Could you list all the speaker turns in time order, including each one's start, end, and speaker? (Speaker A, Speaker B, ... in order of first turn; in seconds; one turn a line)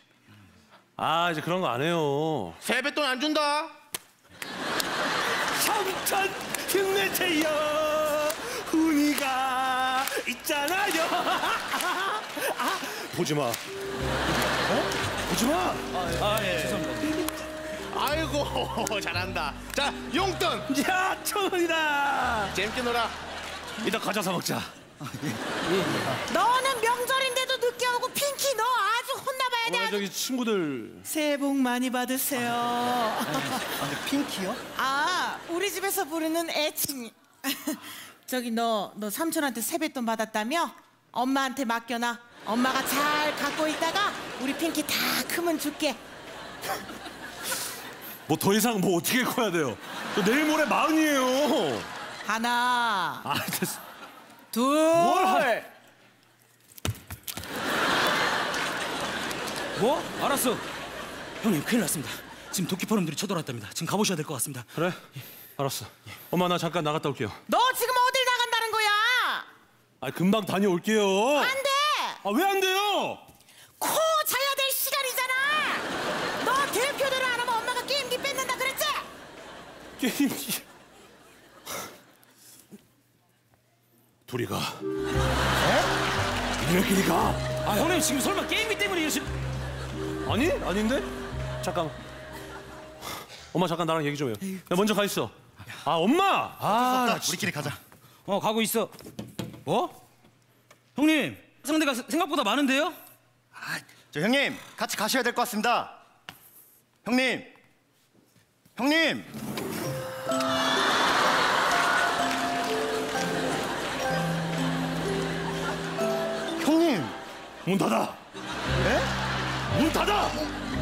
Speaker A: 1.0-2.6
Speaker B: 2.6-3.7
Speaker A: 5.5-13.6
Speaker A: 15.2-16.1
Speaker C: 16.1-17.1
Speaker D: 16.4-16.8
Speaker B: 17.7-20.7
Speaker A: 20.7-22.6
Speaker B: 22.5-23.2
Speaker A: 23.8-24.7
Speaker D: 25.1-25.4
Speaker A: 25.7-26.1
Speaker E: 26.3-30.1
Speaker A: 29.6-31.1
Speaker E: 31.1-33.6
Speaker D: 33.5-34.6
Speaker E: 34.8-46.0
Speaker A: 48.3-51.9
Speaker E: 52.2-53.2
Speaker A: 53.2-53.8
Speaker E: 54.5-55.6
Speaker A: 54.9-55.6
Speaker C: 59.8-60.6
Speaker C: 61.4-64.7
Speaker A: 64.7-65.0
Speaker A: 65.6-67.4
Speaker E: 67.5-69.5
Speaker A: 70.0-71.6
Speaker E: 71.3-72.2
Speaker A: 72.2-73.2
Speaker E: 73.8-79.1
Speaker A: 80.0-80.6
Speaker A: 84.3-84.8
Speaker A: 86.6-87.5
Speaker C: 87.6-89.3
Speaker A: 90.2-91.1
Speaker A: 91.6-92.0
Speaker A: 93.5-97.4
Speaker D: 96.6-97.8
Speaker C: 98.2-98.9
Speaker C: 99.6-99.9
Speaker C: 100.9-103.0
Speaker D: 103.6-106.0
Speaker D: 107.0-107.5
Speaker D: 108.8-109.3
Speaker D: 116.6-117.2
Speaker A: 117.6-118.2
Speaker D: 118.8-119.1
Speaker A: 119.7-120.4